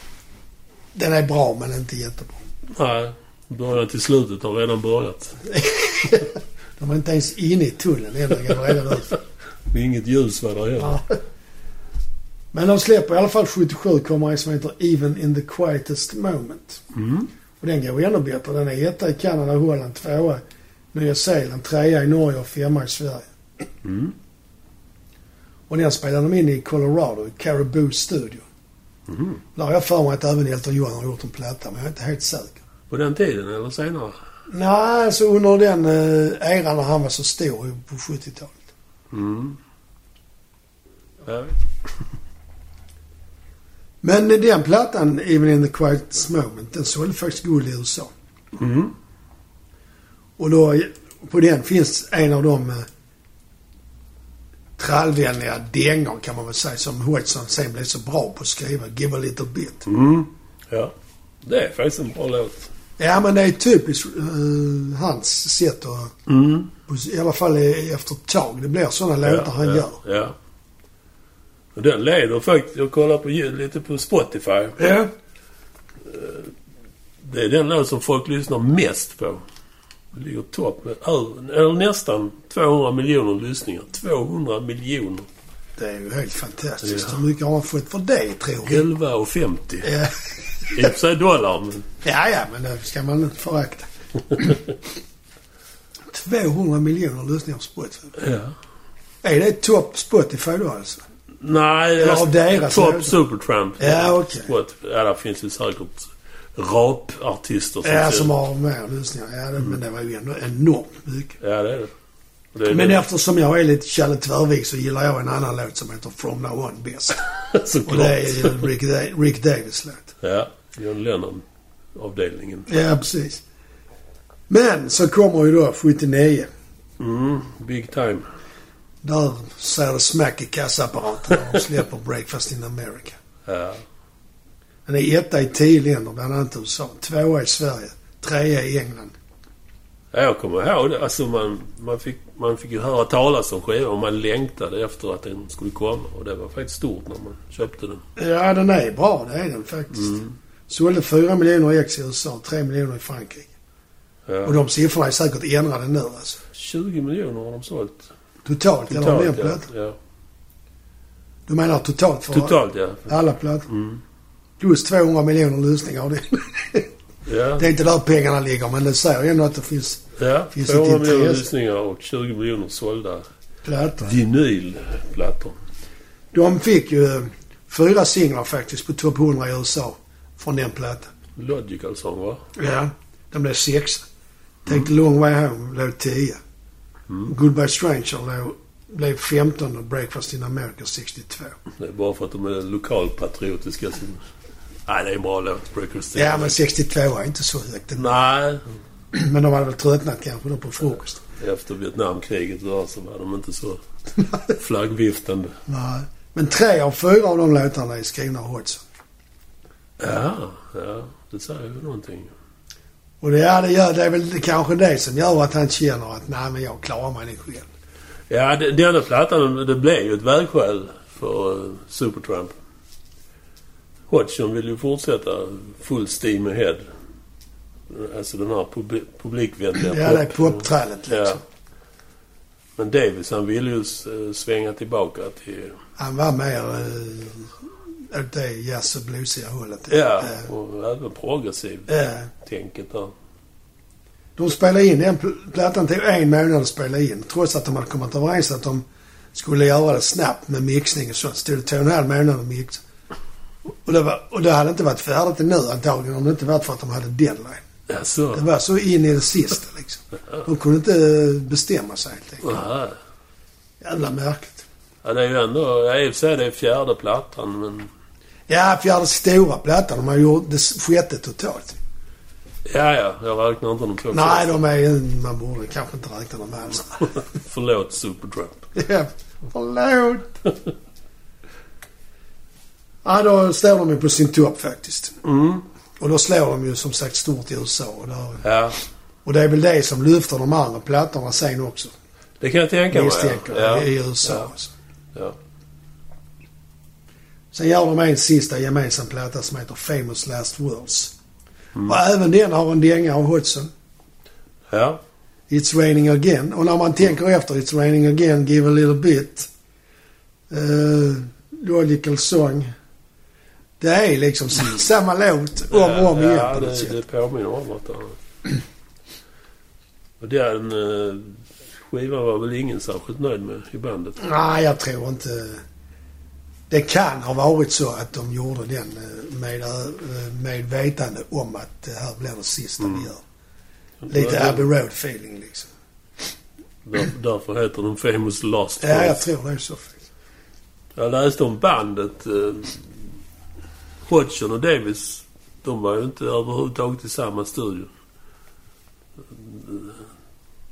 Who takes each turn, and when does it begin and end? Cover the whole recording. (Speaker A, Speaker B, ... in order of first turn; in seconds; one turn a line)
Speaker A: 0.9-2.4
Speaker B: 2.7-5.4
Speaker A: 5.5-9.2
Speaker B: 9.7-11.0
Speaker A: 10.8-11.1
Speaker A: 12.5-16.8
Speaker B: 16.9-17.3
Speaker A: 17.6-20.4
Speaker A: 20.9-23.3
Speaker B: 23.8-24.1
Speaker A: 25.7-28.4
Speaker B: 29.1-29.4
Speaker A: 29.5-32.6
Speaker B: 32.9-34.2
Speaker A: 34.5-38.6
Speaker B: 39.1-39.6
Speaker B: 41.2-41.5
Speaker A: 44.0-48.1
Speaker B: 48.5-48.9
Speaker A: 50.4-52.9
Speaker A: 54.8-59.8
Speaker B: 59.9-60.9
Speaker B: 61.4-62.7
Speaker A: 63.0-66.1
Speaker B: 66.3-66.7
Speaker A: 66.9-70.0
Speaker B: 69.2-70.3
Speaker B: 71.7-74.8
Speaker A: 74.8-75.1
Speaker B: 76.0-76.5
Speaker B: 77.2-79.4
Speaker B: 80.1-85.3
Speaker A: 85.8-88.8
Speaker B: 86.8-87.2
Speaker B: 88.6-90.0
Speaker A: 89.8-90.9
Speaker B: 90.6-91.8
Speaker A: 92.0-94.7
Speaker A: 96.1-98.1
Speaker B: 98.2-98.5
Speaker A: 99.2-101.0
Speaker B: 101.4-108.3
Speaker A: 102.0-103.2
Speaker A: 103.8-104.5
Speaker A: 107.8-111.3
Speaker B: 111.4-111.9
Speaker B: 112.5-113.0
Speaker A: 112.7-117.2
Speaker B: 117.2-118.7
Speaker A: 117.8-120.1
Speaker B: 120.2-122.7
Speaker A: 122.7-123.4
Speaker A: 124.5-126.5
Speaker B: 127.0-128.2
Speaker A: 129.0-133.2
Speaker B: 133.4-133.8
Speaker A: 134.8-139.2
Speaker B: 140.1-148.0
Speaker A: 148.2-150.2
Speaker B: 149.9-150.3
Speaker A: 150.7-153.5
Speaker B: 154.3-154.6
Speaker A: 154.4-156.4
Speaker B: 156.5-158.1
Speaker A: 158.4-159.7
Speaker B: 158.9-159.9
Speaker A: 161.5-163.7
Speaker B: 162.3-163.1
Speaker B: 163.7-164.0
Speaker A: 164.6-166.9
Speaker B: 167.2-167.7
Speaker A: 167.6-171.4
Speaker B: 170.2-173.2
Speaker A: 173.6-174.1
Speaker B: 174.0-175.6
Speaker A: 176.3-181.1
Speaker B: 181.3-182.4
Speaker A: 182.6-184.1
Speaker A: 184.7-186.4
Speaker A: 187.2-191.6
Speaker B: 191.8-194.2
Speaker B: 194.9-196.6
Speaker A: 196.1-198.1
Speaker B: 197.9-198.7
Speaker A: 199.1-201.2
Speaker B: 201.4-205.6
Speaker A: 205.7-208.8
Speaker B: 210.0-212.3
Speaker A: 213.2-217.7
Speaker B: 218.3-222.6
Speaker B: 224.1-226.8
Speaker B: 227.9-231.4
Speaker A: 229.8-231.4
Speaker B: 232.8-235.8
Speaker A: 236.0-240.5
Speaker B: 239.9-243.1
Speaker A: 241.9-242.3
Speaker A: 244.4-252.8
Speaker A: 253.7-257.6
Speaker B: 257.9-258.4
Speaker A: 258.3-262.5
Speaker B: 262.4-263.0
Speaker A: 263.8-264.6
Speaker B: 265.0-267.9
Speaker A: 268.5-271.8
Speaker B: 272.7-274.6
Speaker A: 274.1-277.1
Speaker B: 277.0-278.7
Speaker A: 278.7-280.3
Speaker A: 283.0-285.2
Speaker B: 285.2-285.6
Speaker A: 286.0-288.4
Speaker B: 288.4-288.8
Speaker A: 289.2-291.9
Speaker B: 292.4-294.5
Speaker A: 292.9-294.7
Speaker A: 297.5-301.1
Speaker A: 301.8-303.7
Speaker B: 304.7-305.0
Speaker A: 305.5-309.5
Speaker A: 310.5-312.7
Speaker A: 313.8-317.0
Speaker B: 315.7-318.2
Speaker B: 320.2-324.2
Speaker A: 324.2-325.6
Speaker A: 326.7-333.2
Speaker B: 332.8-333.1
Speaker B: 334.0-334.6
Speaker A: 334.1-335.7
Speaker B: 336.8-339.3
Speaker A: 338.8-340.0
Speaker B: 340.9-343.0
Speaker B: 344.1-347.9
Speaker B: 349.3-350.1